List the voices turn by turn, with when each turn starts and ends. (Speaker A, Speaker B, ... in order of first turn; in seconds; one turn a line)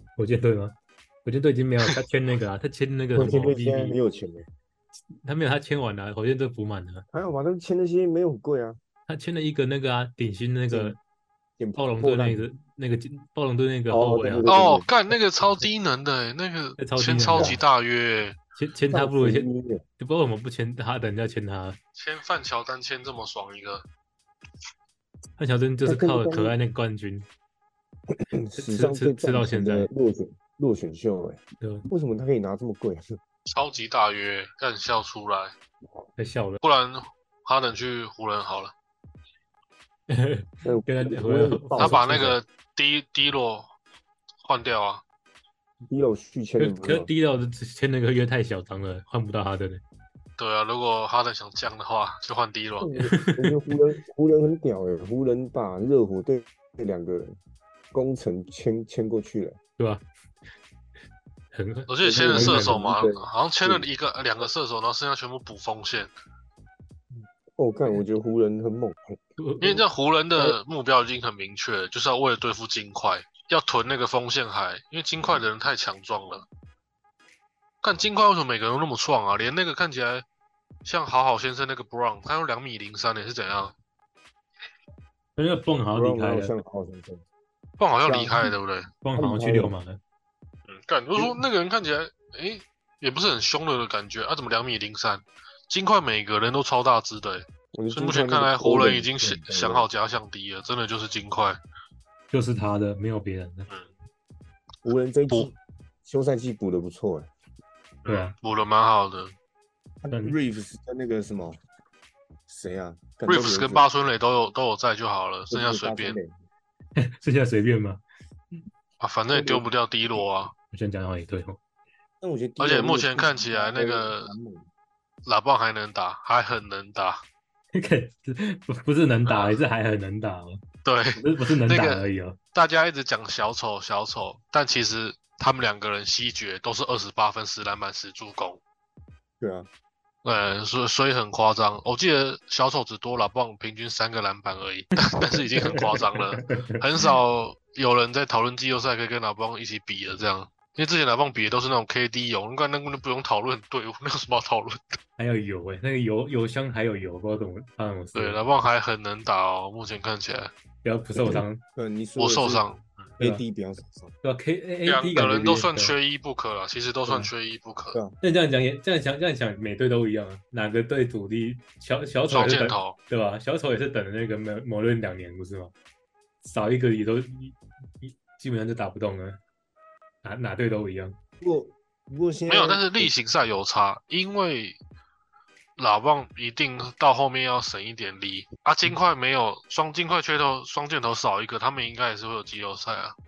Speaker A: 0.2-4.0
Speaker B: 3.1-4.5
Speaker A: 5.2-7.0
Speaker B: 7.1-8.8
Speaker A: 9.1-11.0
Speaker B: 10.7-11.0
Speaker B: 11.6-12.4
Speaker A: 11.8-14.5
Speaker B: 13.9-14.9
Speaker C: 14.5-18.4
Speaker A: 16.8-17.6
Speaker B: 17.3-17.6
Speaker A: 18.6-19.5
Speaker B: 18.9-19.8
Speaker A: 20.0-21.8
Speaker C: 22.0-23.9
Speaker A: 25.4-27.3
Speaker B: 25.9-26.6
Speaker B: 28.3-33.0
Speaker A: 28.6-29.9
Speaker A: 31.6-31.9
Speaker C: 33.5-35.5
Speaker A: 36.2-36.6
Speaker C: 36.6-38.7
Speaker A: 40.1-42.4
Speaker B: 40.6-42.0
Speaker C: 41.8-43.7
Speaker C: 44.4-45.0
Speaker B: 45.9-47.1
Speaker A: 46.6-49.8
Speaker C: 50.4-52.9
Speaker B: 52.8-57.4
Speaker A: 53.1-53.5
Speaker B: 57.9-59.6
Speaker A: 59.8-60.0
Speaker A: 61.5-62.8
Speaker C: 61.9-66.1
Speaker B: 62.0-63.9
Speaker B: 67.6-69.2
Speaker A: 69.4-69.8
Speaker C: 69.6-76.5
Speaker C: 77.8-80.2
Speaker C: 80.8-83.8
Speaker A: 85.4-86.5
Speaker B: 85.9-87.2
Speaker C: 87.8-88.9
Speaker B: 88.0-88.5
Speaker A: 89.0-90.0
Speaker B: 89.2-89.7
Speaker C: 90.7-101.6
Speaker B: 91.2-91.4
Speaker B: 97.7-99.9
Speaker A: 102.3-103.7
Speaker B: 104.8-107.3
Speaker C: 108.0-109.3
Speaker A: 108.1-108.3
Speaker B: 110.0-111.6
Speaker A: 110.1-110.4
Speaker B: 112.5-113.8
Speaker C: 113.3-116.2
Speaker B: 115.5-116.3
Speaker A: 117.0-118.0
Speaker C: 119.0-120.5
Speaker B: 119.3-119.7
Speaker A: 120.7-121.6
Speaker B: 122.2-124.7
Speaker C: 122.6-124.3
Speaker C: 125.2-127.2
Speaker A: 127.8-130.6
Speaker C: 129.3-129.6
Speaker C: 130.8-138.6
Speaker A: 131.2-132.4
Speaker B: 139.4-139.7
Speaker C: 140.2-155.0
Speaker A: 145.3-147.1
Speaker A: 155.2-158.4
Speaker C: 158.2-160.5
Speaker A: 160.8-161.6
Speaker B: 161.2-162.7
Speaker C: 162.2-163.1
Speaker B: 163.2-164.1
Speaker A: 164.2-166.0
Speaker C: 164.9-168.0
Speaker A: 168.2-175.7
Speaker C: 172.3-173.0
Speaker A: 176.4-179.4
Speaker A: 180.2-181.2
Speaker B: 181.4-183.1
Speaker C: 182.5-184.8
Speaker C: 185.8-193.2